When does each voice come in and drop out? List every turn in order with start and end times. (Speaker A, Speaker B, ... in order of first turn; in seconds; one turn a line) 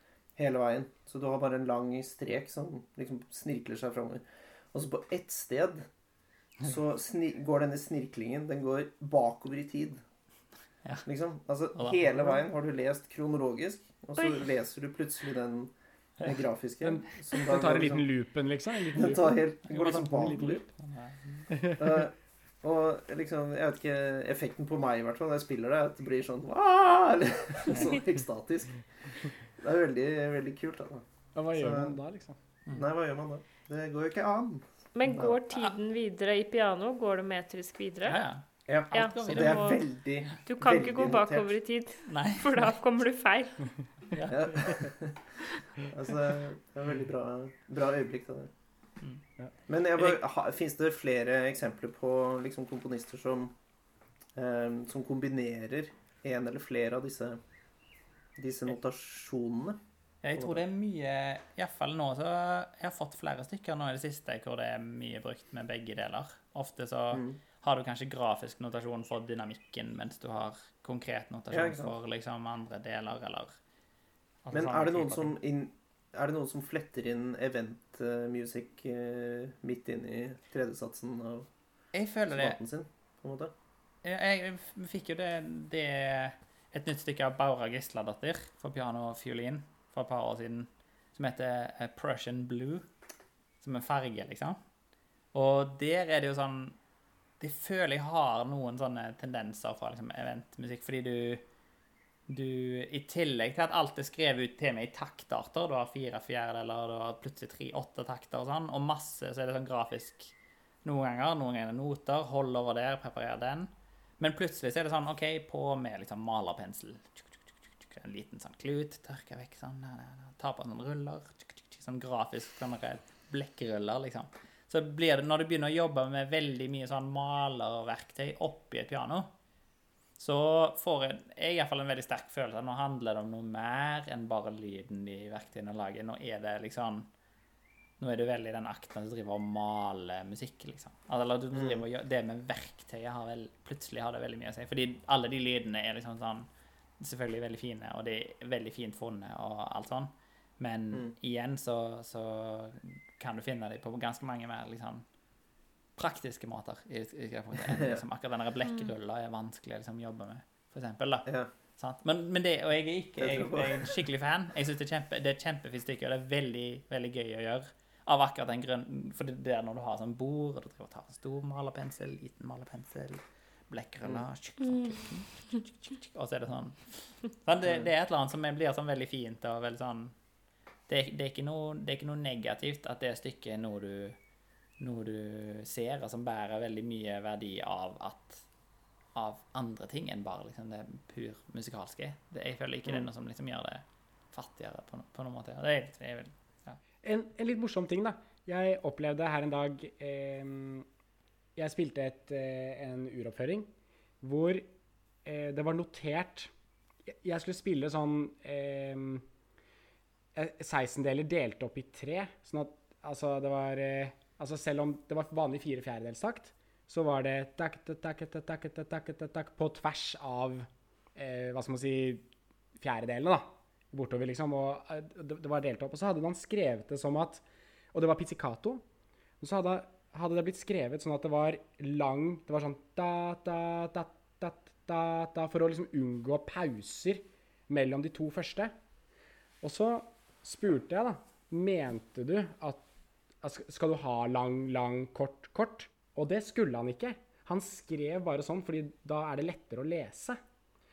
Speaker A: 0.3-5.9
Speaker A: 6.6-10.0
Speaker A: 11.1-18.0
Speaker B: 11.7-12.0
Speaker C: 14.2-14.4
Speaker D: 16.8-19.3
Speaker A: 18.9-20.6
Speaker B: 19.7-21.5
Speaker D: 20.2-20.5
Speaker D: 21.5-22.0
Speaker A: 21.8-28.8
Speaker A: 29.6-31.9
Speaker D: 31.3-32.4
Speaker A: 32.7-35.4
Speaker C: 34.9-38.2
Speaker B: 38.0-39.8
Speaker A: 38.7-41.5
Speaker C: 38.9-39.8
Speaker C: 40.3-43.7
Speaker B: 42.0-42.7
Speaker B: 44.1-44.5
Speaker A: 44.3-48.5
Speaker A: 49.7-53.5
Speaker A: 54.3-57.4
Speaker A: 58.4-59.8
Speaker B: 60.2-73.6
Speaker A: 60.4-60.6
Speaker A: 67.1-67.4
Speaker A: 71.5-71.9
Speaker B: 74.4-75.3
Speaker A: 74.5-81.5
Speaker B: 81.9-82.6
Speaker A: 82.3-83.5
Speaker B: 84.0-92.9
Speaker B: 93.6-94.6
Speaker B: 95.3-96.8
Speaker B: 97.4-101.4
Speaker B: 102.3-129.3
Speaker B: 130.2-137.1
Speaker B: 138.0-146.5
Speaker A: 141.5-141.8
Speaker B: 147.0-155.0
Speaker B: 156.0-180.1
Speaker A: 163.2-163.9
Speaker C: 174.6-174.9
Speaker B: 180.9-184.2
Speaker B: 184.8-188.4
Speaker B: 189.1-196.8
Speaker D: 197.0-200.8
Speaker D: 201.6-203.7
Speaker D: 204.2-204.7
Speaker D: 205.2-206.5
Speaker D: 207.1-209.2
Speaker D: 210.3-222.2
Speaker D: 222.8-228.8
Speaker D: 229.4-238.7
Speaker D: 239.6-242.8
Speaker D: 243.4-250.4